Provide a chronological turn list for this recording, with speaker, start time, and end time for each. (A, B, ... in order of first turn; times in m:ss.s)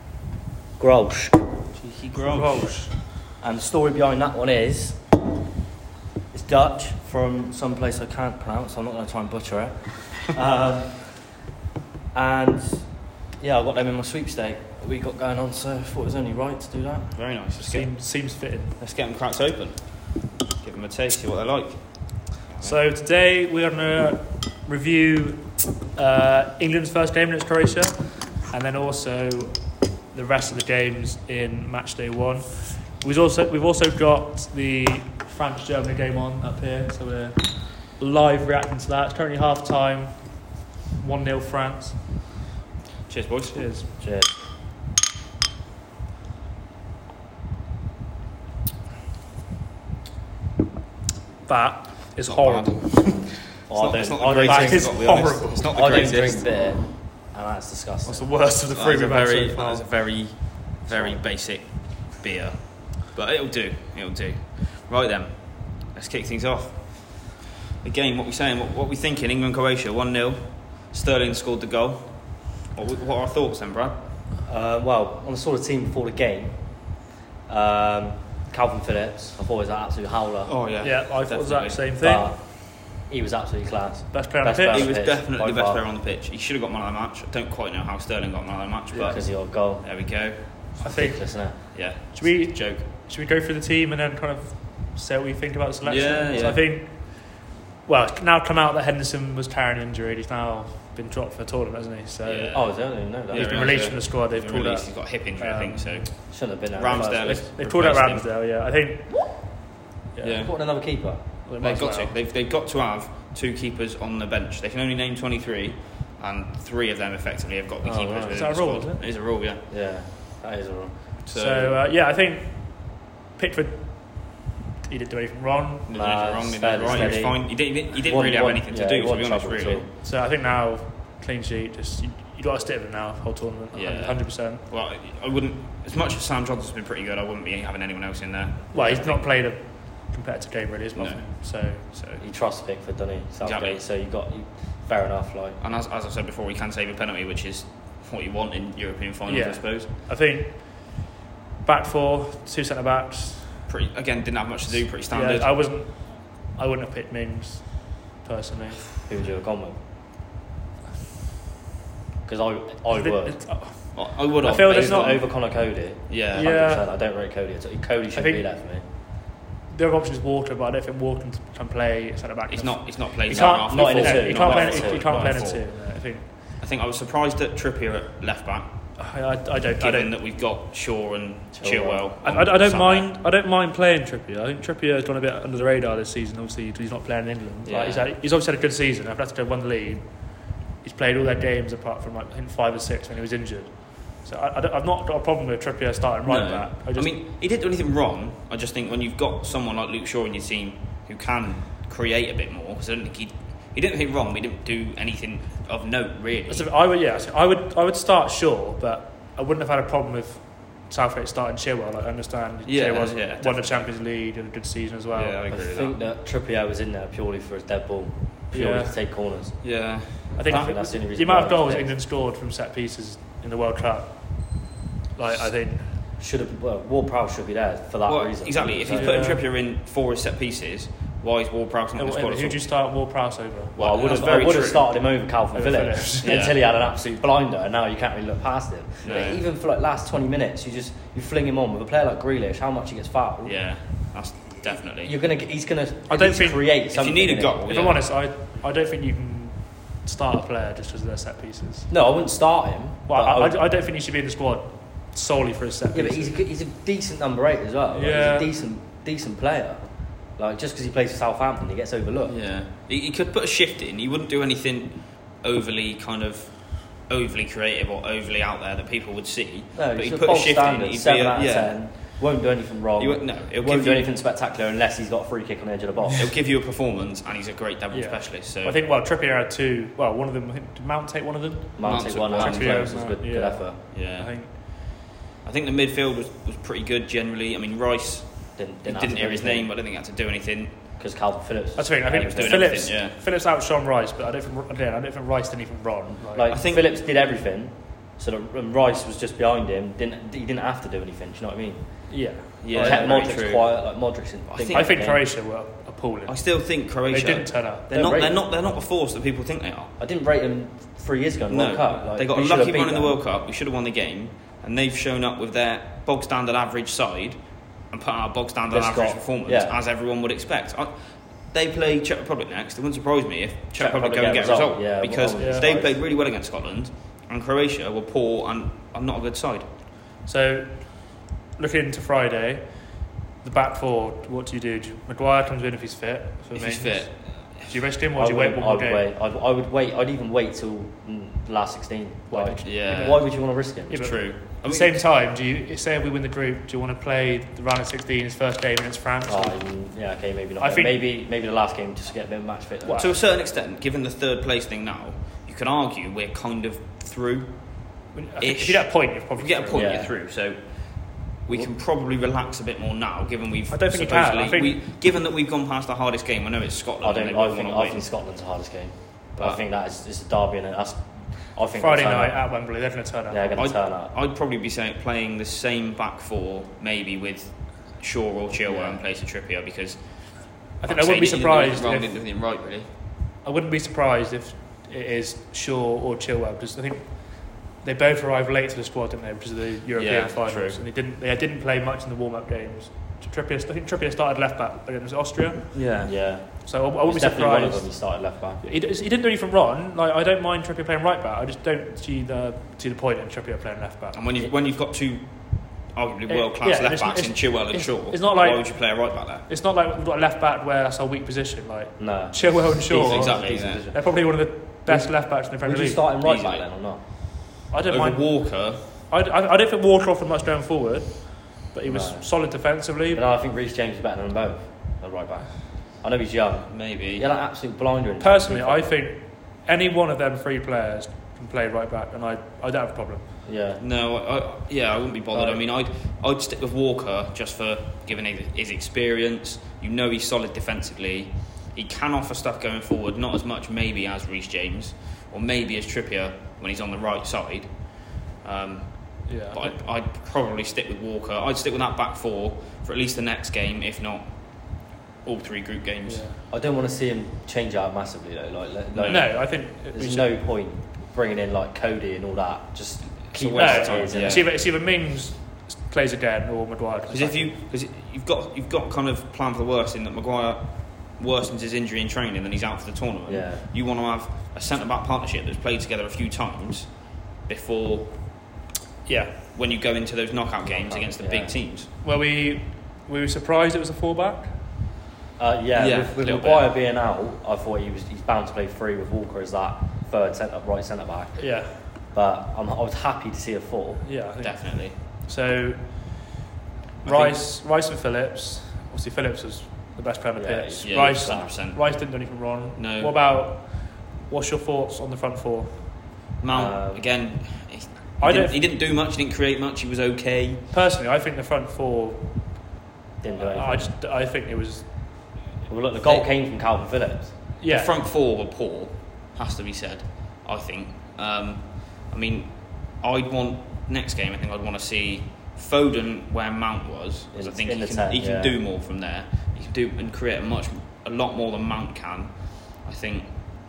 0:00.8-0:01.4 A
0:01.8-0:02.7 B
0:02.3-0:02.9 C
0:03.2-0:05.0 A
0:06.3-0:11.4 A
0:12.1-0:17.2 A
0:17.1-0:22.8 B
0:17.6-0:18.8 C
0:22.6-0:42.1 C
0:43.1-0:43.7 B
0:43.5-0:43.9 C
0:44.0-0:44.3 A
0:51.5-0:53.2 C
0:52.3-0:56.5 B
0:53.7-0:58.3 A
0:54.4-0:55.9 C
0:58.0-0:59.9 C
0:58.8-1:14.0 B
1:00.9-1:01.2 A
1:14.4-1:20.6 A
1:20.5-1:21.9 B
1:20.8-1:22.3 C
1:22.0-1:25.8 A
1:24.1-1:24.9 C
1:24.7-1:30.8 B
1:28.9-1:29.9 A
1:30.8-1:31.6 A
1:30.8-1:42.6 C
1:31.7-1:32.8 B
1:35.8-1:36.7 B
1:42.2-1:48.3 B
1:42.5-1:43.9 A
1:43.3-1:46.0 C
1:46.3-1:47.4 A
1:47.2-1:49.6 C
1:50.1-1:50.4 C
1:50.2-1:50.5 B
1:50.3-1:51.2 A
1:51.4-1:52.1 C
1:51.6-1:59.7 B
1:57.8-1:58.5 A
1:58.3-1:59.0 C
1:59.7-2:01.2 A
2:01.2-2:01.8 B
2:01.3-2:05.9 C
2:05.9-2:09.9 B
2:05.9-2:09.9 A
2:06.9-2:07.2 C
2:10.0-2:14.6 C
2:13.7-2:19.0 B
2:18.7-2:22.2 C
2:18.7-2:19.2 A
2:22.2-2:25.6 A
2:23.4-2:23.8 B
2:25.6-2:29.9 B
2:29.3-2:31.1 C
2:31.6-2:33.6 C
2:33.7-2:35.5 B
2:35.1-2:38.8 C
2:39.1-2:39.8 A
2:42.3-2:43.5 A
2:42.9-2:45.2 C
2:43.9-2:45.6 B
2:44.6-2:48.8 A
2:46.1-2:46.5 B
2:46.3-2:46.9 C
2:48.1-2:48.5 C
2:49.7-2:56.3 C
2:52.5-2:55.8 B
2:53.3-2:55.3 A
2:56.6-2:58.7 B
2:59.0-3:00.1 C
2:59.8-3:03.1 B
3:01.6-3:02.0 A
3:02.2-3:17.2 C
3:07.7-3:08.0 B
3:16.2-3:26.7 B
3:26.5-3:35.4 C
3:32.6-3:33.9 B
3:35.1-3:36.0 B
3:35.5-3:39.6 A
3:38.5-3:38.9 C
3:39.6-3:40.7 B
3:40.4-3:45.9 C
3:40.5-3:41.9 A
3:46.2-3:49.2 A
3:48.1-3:52.7 B
3:48.9-3:49.4 C
3:52.0-3:53.8 C
3:53.8-3:54.9 B
3:53.8-4:03.6 A
3:55.5-3:56.5 C
3:56.2-3:56.6 B
3:59.0-3:59.4 B
4:03.5-4:05.1 B
4:05.0-4:07.6 A
4:06.1-4:06.7 C
4:06.9-4:08.0 B
4:07.7-4:11.9 C
4:11.9-4:13.6 A
4:13.1-4:16.4 C
4:15.9-4:22.4 A
4:17.9-4:18.5 C
4:22.3-4:32.2 B
4:29.7-4:36.3 A
4:33.0-4:34.1 B
4:36.2-4:38.8 B
4:37.9-4:44.5 C
4:41.8-4:43.8 A
4:41.8-4:42.9 B
4:43.9-4:44.8 B
4:45.4-4:50.8 B
4:48.6-4:49.7 A
4:51.0-4:52.9 A
4:51.8-4:56.5 C
4:52.2-4:53.2 B
4:56.3-5:02.1 A
4:56.5-4:56.8 B
5:02.1-5:03.3 C
5:02.6-5:05.2 A
5:02.6-5:03.8 B
5:04.5-5:05.0 B
5:04.7-5:07.9 C
5:06.3-5:09.9 B
5:07.9-5:08.4 A
5:10.0-5:13.2 A
5:11.5-5:17.4 B
5:17.9-5:29.7 B
5:18.7-5:19.8 A
5:23.8-5:26.0 A
5:25.4-5:25.7 C
5:30.3-5:39.1 C
5:36.6-5:37.7 B
5:38.2-5:44.1 A
5:42.3-5:49.6 C
5:42.6-5:43.3 B
5:43.9-5:45.0 B
5:49.3-5:53.1 A
5:50.6-5:51.0 C
5:52.8-5:53.1 C
5:52.9-6:08.1 B
5:58.1-6:00.0 C
5:59.7-6:00.1 A
6:03.7-6:04.8 C
6:07.0-6:12.5 A
6:11.8-6:13.6 C
6:13.3-6:14.1 A
6:13.6-6:22.9 B
6:18.7-6:19.0 A
6:20.8-6:22.1 C
6:23.4-6:36.0 C
6:30.0-6:30.8 B
6:35.7-6:36.1 B
6:36.0-6:38.6 A
6:36.6-6:44.2 C
6:44.1-6:49.5 B
6:46.3-6:56.0 C
6:52.0-6:54.1 A
6:52.9-6:53.9 B
6:54.9-6:57.0 A
6:56.2-6:56.6 B
6:57.7-7:03.2 C
6:57.9-6:58.8 B
7:01.8-7:02.4 A
7:03.1-7:08.9 A
7:06.7-7:07.3 B
7:08.2-7:13.3 C
7:13.4-7:13.8 A
7:13.8-7:36.3 B
7:15.3-7:15.6 A
7:29.3-7:29.8 C
7:36.1-7:36.4 C
7:36.5-7:44.5 A
7:38.9-7:39.3 B
7:39.1-7:40.3 C
7:43.3-7:44.5 B
7:43.6-7:47.6 C
7:47.1-7:58.5 B
7:53.3-7:53.7 A
7:59.1-7:59.4 C
7:59.5-8:01.9 B
8:00.6-8:01.6 A
8:02.0-8:04.6 C
8:05.4-8:14.1 A
8:05.8-8:06.7 B
8:11.4-8:11.9 C
8:14.0-8:16.3 C
8:14.4-8:15.0 B
8:17.0-8:26.0 C
8:17.0-8:17.4 B
8:20.4-8:21.5 A
8:20.8-8:23.2 B
8:26.4-8:30.7 B
8:26.5-8:27.0 A
8:28.2-8:28.6 C
8:30.7-8:32.6 C
8:33.2-8:33.9 A
8:33.4-8:34.9 C
8:35.7-8:37.4 A
8:37.6-8:37.9 C
8:37.7-8:53.3 B
8:47.3-8:48.6 A